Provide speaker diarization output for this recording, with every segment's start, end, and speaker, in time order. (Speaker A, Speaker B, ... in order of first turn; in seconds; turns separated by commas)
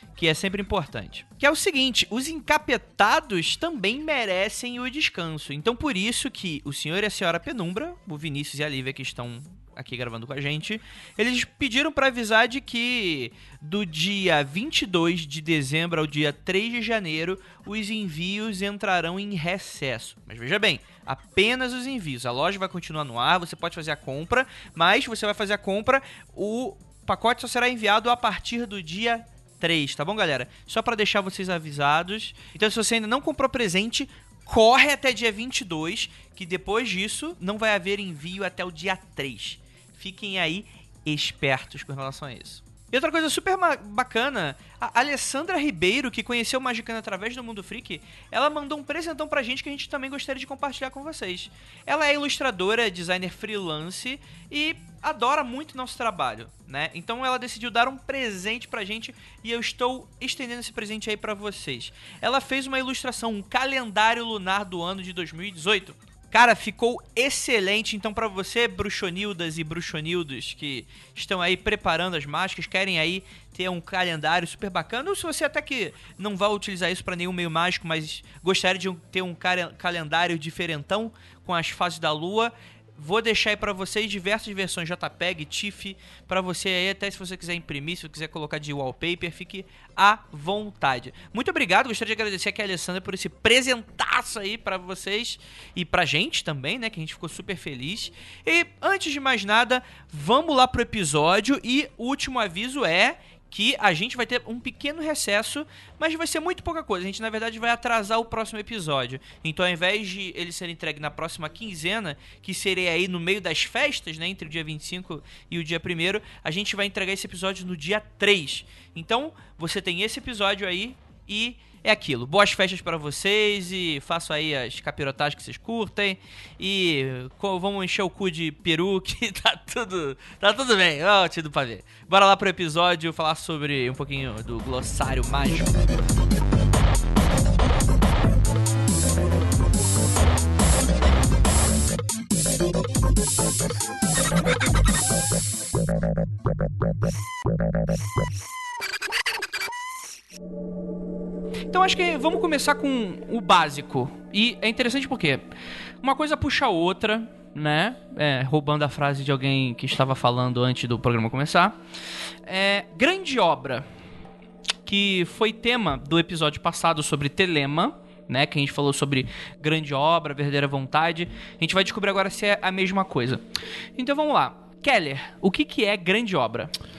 Speaker A: 0.2-135.7, Speaker A: 151.7-155.4, Speaker A: 156.0-161.8, Speaker A: 162.5-163.8, Speaker A: 164.9-173.4, Speaker A: 174.0-176.7